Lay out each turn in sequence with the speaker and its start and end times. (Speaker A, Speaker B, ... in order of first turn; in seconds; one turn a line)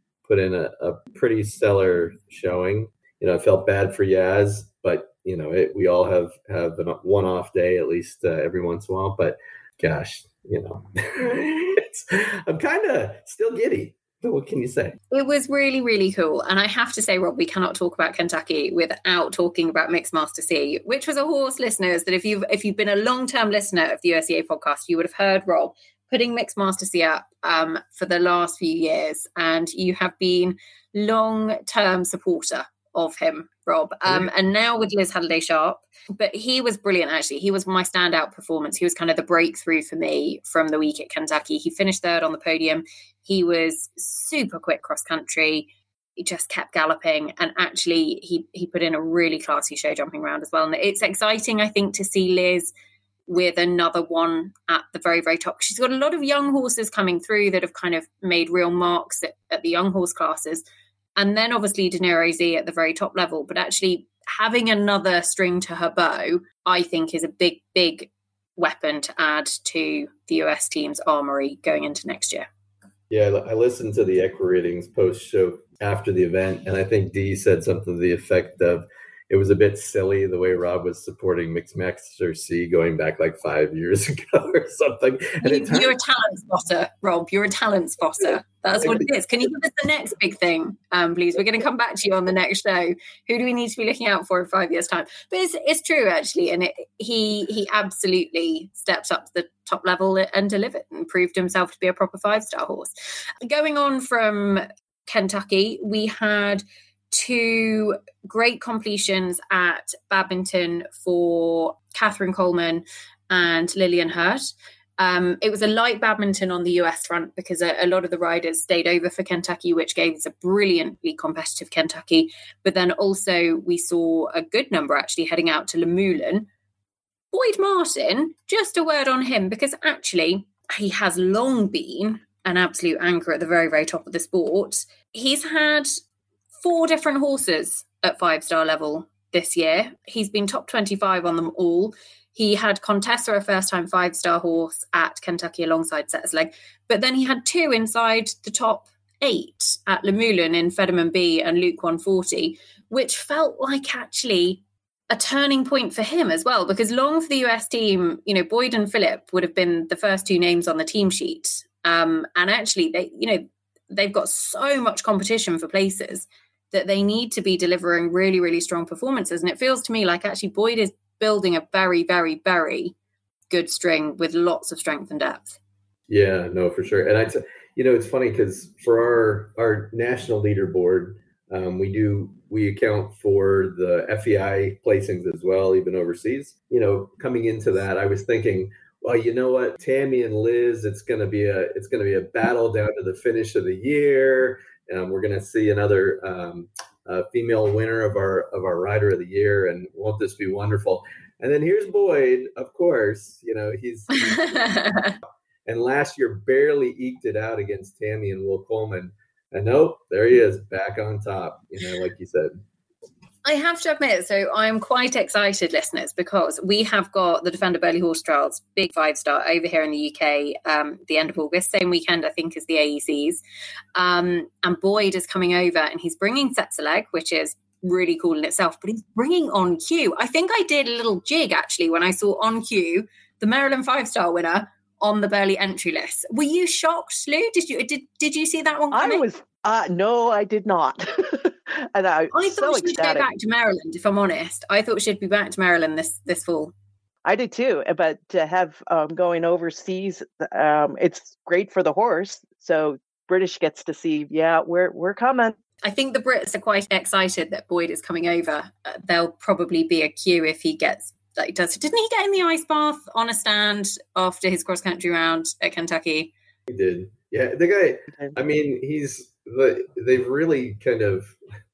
Speaker A: 0.3-15.0
Speaker B: 15.1-52.7
Speaker B: 53.3-60.6
Speaker B: 61.2-72.5
Speaker A: 73.1-86.0
Speaker B: 85.4-102.9
Speaker B: 103.4-126.5
Speaker B: 127.3-135.9
Speaker B: 136.6-172.9
Speaker B: 173.5-175.6
Speaker A: 176.1-204.9
Speaker B: 204.2-205.2
Speaker A: 205.7-212.5
Speaker B: 213.4-223.4
Speaker B: 223.9-239.2
Speaker C: 238.9-243.2
Speaker B: 242.3-246.7
Speaker C: 247.3-255.6
Speaker B: 255.8-266.3
Speaker A: 266.7-271.4